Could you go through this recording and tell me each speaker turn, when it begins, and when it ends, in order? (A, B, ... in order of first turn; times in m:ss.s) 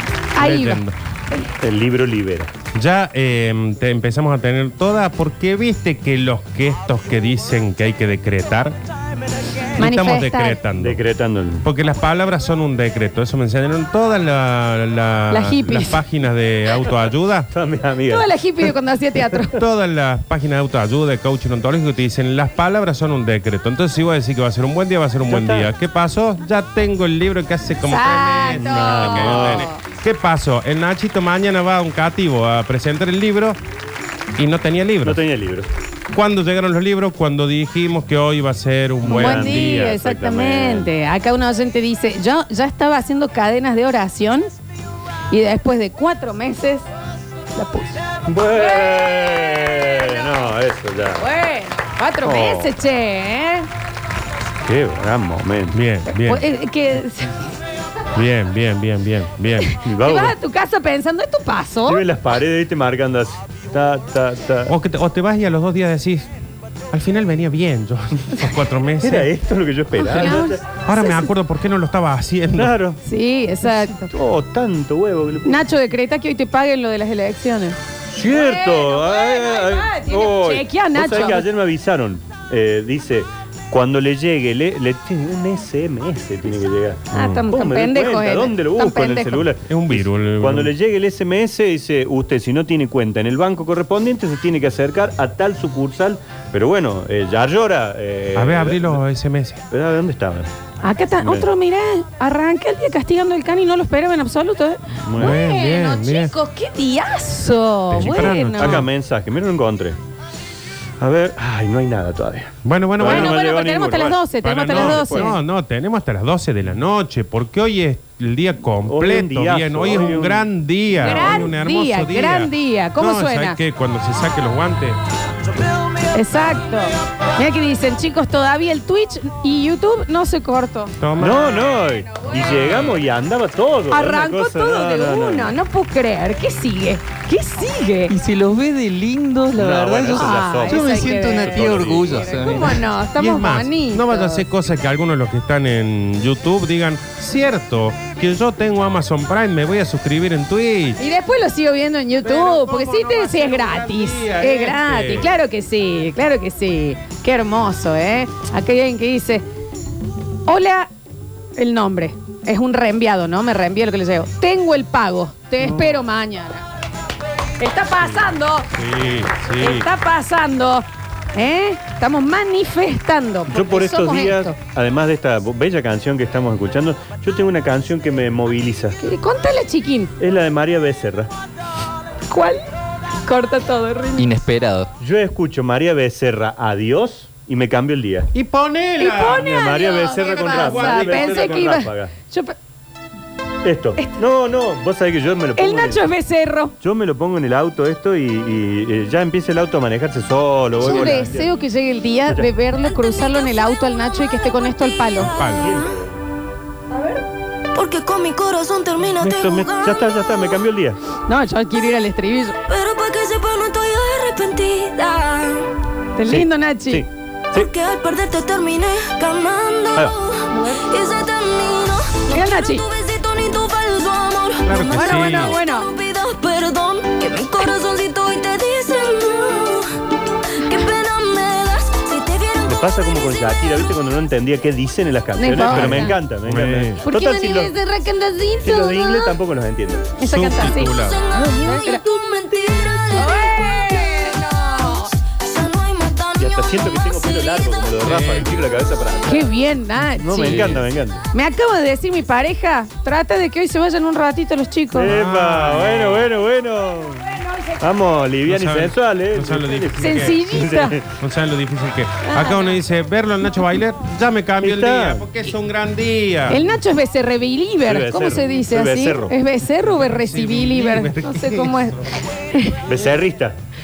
0:00.3-0:01.4 A
0:00.4-0:01.0 B
0:01.6-0:02.5 C
0:02.7-0:08.8 B
0:09.8-0:10.6 A
0:09.8-0:11.0 B
0:10.8-0:11.7 C
0:11.6-0:17.5 B
0:15.3-0:16.0 A
0:17.5-0:18.3 C
0:18.1-0:19.6 A
0:19.5-0:33.6 B
0:25.3-0:25.7 C
0:27.8-0:29.8 A
0:28.5-0:29.7 C
0:34.4-0:35.2 B
0:35.0-0:35.7 C
0:36.1-0:40.0 B
0:39.0-0:40.9 C
0:39.1-0:44.5 A
0:45.3-0:46.9 A
0:47.5-0:48.0 A
0:48.3-0:51.2 C
0:48.6-0:50.3 A
0:51.2-0:53.7 A
0:52.2-0:52.7 C
0:54.6-0:55.8 C
0:55.7-0:56.4 B
0:56.1-0:57.4 A
0:58.1-0:59.7 B
0:59.6-1:02.0 A
0:59.8-1:00.4 C
1:01.8-1:04.7 C
1:04.7-1:06.3 B
1:06.9-1:09.3 B
1:09.0-1:10.6 C
1:09.9-1:11.3 A
1:10.8-1:12.8 B
1:12.5-1:13.0 C
1:13.0-1:14.1 A
1:13.7-1:15.6 C
1:15.4-1:17.8 A
1:18.1-1:39.0 C
1:18.3-1:21.4 A
1:27.1-1:29.5 A
1:29.7-1:30.7 B
1:38.3-1:39.6 B
1:39.7-1:40.5 C
1:40.8-1:48.8 A
1:41.2-1:41.5 C
1:45.0-1:45.4 C
1:45.2-1:46.3 B
1:47.9-1:48.9 B
1:48.0-1:50.0 C
1:51.0-1:55.4 C
1:52.6-1:53.4 B
1:53.0-1:55.4 A
1:54.4-2:05.0 B
1:58.8-2:00.5 C
2:01.0-2:03.6 A
2:01.0-2:01.3 C
2:06.1-2:11.0 A
2:11.0-2:11.7 B
2:11.2-2:15.5 C
2:12.4-2:12.9 A
2:12.5-2:12.8 B
2:13.9-2:18.1 A
2:18.1-2:22.8 D
2:19.5-2:22.4 C
2:20.1-2:24.4 A
2:23.1-2:31.0 B
2:31.0-2:39.4 A
2:32.2-2:35.4 B
2:40.5-2:40.9 A
2:41.6-2:46.6 A
2:45.6-2:46.0 C
2:47.6-2:48.7 A
2:48.7-2:49.9 B
2:49.6-2:54.6 A
2:53.5-2:59.0 C
2:59.0-3:00.1 A
3:00.2-3:01.3 C
3:02.3-3:02.6 A
3:03.2-3:04.3 A
3:04.2-3:04.9 D
3:05.0-3:08.3 C
3:08.3-3:09.4 B
3:09.0-3:12.5 A
3:09.3-3:12.1 C
3:10.4-3:11.6 B
3:13.6-3:16.1 C
3:14.0-3:14.2 A
3:15.6-3:16.7 A
3:16.8-3:21.5 C
3:20.8-3:25.3 A
3:20.9-3:21.2 B
3:25.2-3:25.8 B
3:25.2-3:25.8 E
3:25.6-3:26.2 C
3:26.9-3:27.2 A
3:27.7-3:30.5 E
3:29.2-3:31.0 C
3:31.3-3:32.6 A
3:32.7-3:35.7 E
3:36.2-3:37.0 A
3:36.3-3:37.7 C
3:37.5-3:50.0 E
3:40.5-3:40.8 A
3:42.3-3:42.8 A
3:44.6-3:45.6 B
3:44.8-3:45.9 A
3:50.5-3:52.9 E
3:52.7-3:57.7 C
3:55.4-3:56.2 A
3:55.7-3:57.0 B
3:57.0-3:59.3 A
3:58.6-4:00.2 C
4:00.2-4:02.0 A
4:00.2-4:01.2 B
4:00.8-4:04.2 E
4:03.1-4:05.1 A
4:05.3-4:07.9 E
4:06.4-4:09.5 C
4:08.0-4:08.5 B
4:09.2-4:15.2 A
4:10.2-4:11.2 C
4:14.9-4:21.1 C
4:15.0-4:16.3 B
4:17.2-4:17.8 A
4:18.4-4:20.5 B
4:20.0-4:21.0 A
4:21.1-4:26.7 B
4:22.2-4:22.8 A
4:24.6-4:25.2 C
4:26.5-4:32.9 A
4:27.8-4:29.4 C
4:29.9-4:32.0 B
4:32.8-4:33.6 C